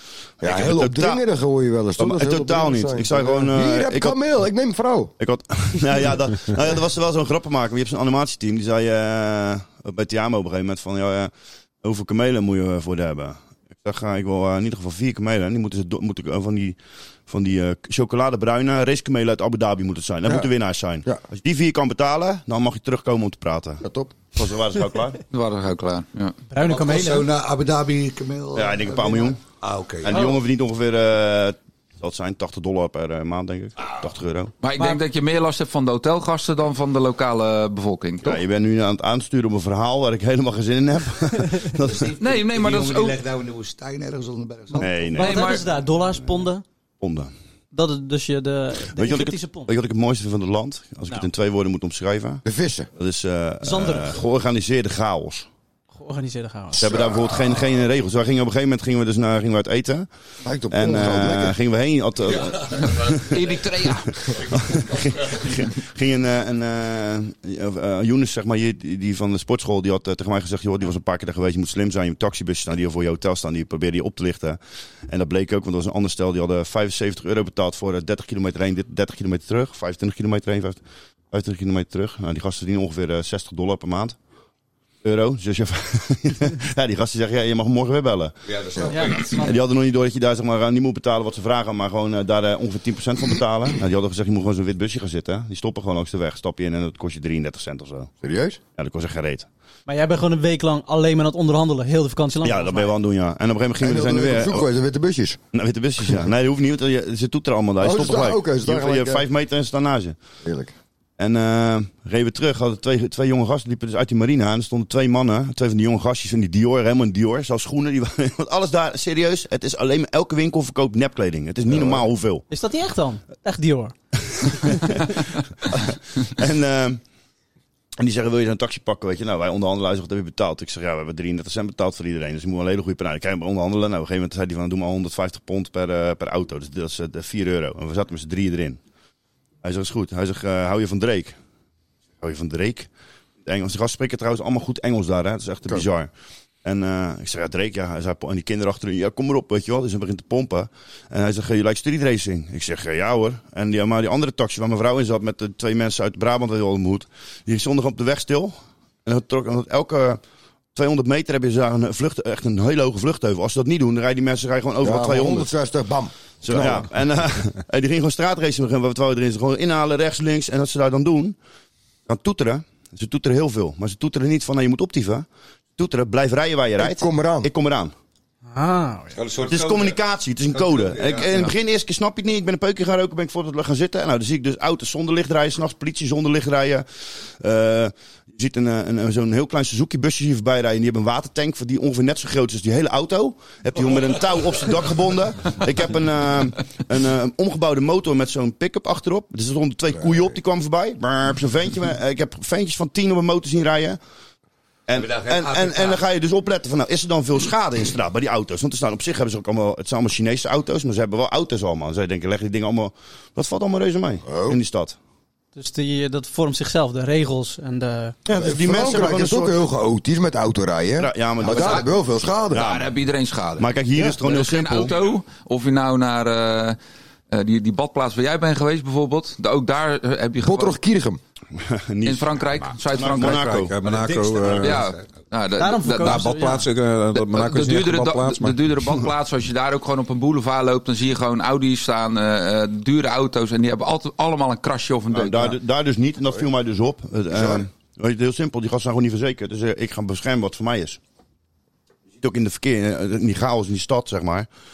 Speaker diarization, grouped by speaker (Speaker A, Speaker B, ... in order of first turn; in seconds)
Speaker A: 0.4-1.2, 2.0-4.2, 5.2-11.3, 11.8-25.2, 28.5-29.4, 30.0-34.5, 38.2-42.1, 44.8-46.1, 47.0-47.3, 48.9-52.4, 53.0-55.5, 56.7-60.1, 60.7-63.2, 64.5-84.2, 85.0-88.3, 89.3-98.1, 98.8-99.5, 102.4-104.7, 105.5-110.2, 111.2-122.4, 125.7-127.0, 128.0-138.8, 139.6-141.3, 142.2-142.9, 143.4-146.1, 146.6-160.2, 160.7-165.5, 166.4-171.4, 172.1-175.2, 175.8-177.9, 179.4-186.8, 187.4-204.0, 204.9-214.9, 218.2-219.6, 221.0-222.0, 222.5-222.9, 223.6-224.9, 231.6-232.4, 232.9-233.8, 245.1-251.0, 252.2-254.5
Speaker B: 0.4-5.1, 23.8-24.2, 52.4-52.9, 60.4-61.5, 98.2-98.6, 103.8-105.4, 107.8-109.2, 110.4-110.7, 164.8-166.9, 176.8-177.5, 214.3-214.6, 218.4-222.6, 230.4-231.2
Speaker C: 25.3-26.4, 34.6-38.4, 42.2-43.2, 45.2-45.6, 62.8-64.3, 221.5-221.8, 222.5-226.8, 227.3-230.8, 232.0-233.4, 234.6-236.3, 237.1-245.6
Speaker D: 26.5-27.3, 44.7-46.6, 47.7-49.7, 53.6-54.2, 56.0-57.0, 88.9-89.5, 99.9-102.9, 122.5-123.9, 178.5-179.2, 215.5-218.2, 235.6-236.7
Speaker E: 26.6-30.2, 41.8-45.1, 64.7-65.4, 88.5-89.5, 179.1-180.0, 180.5-181.3, 204.9-206.0, 233.8-235.1
Speaker F: 233.2-234.8, 236.0-238.7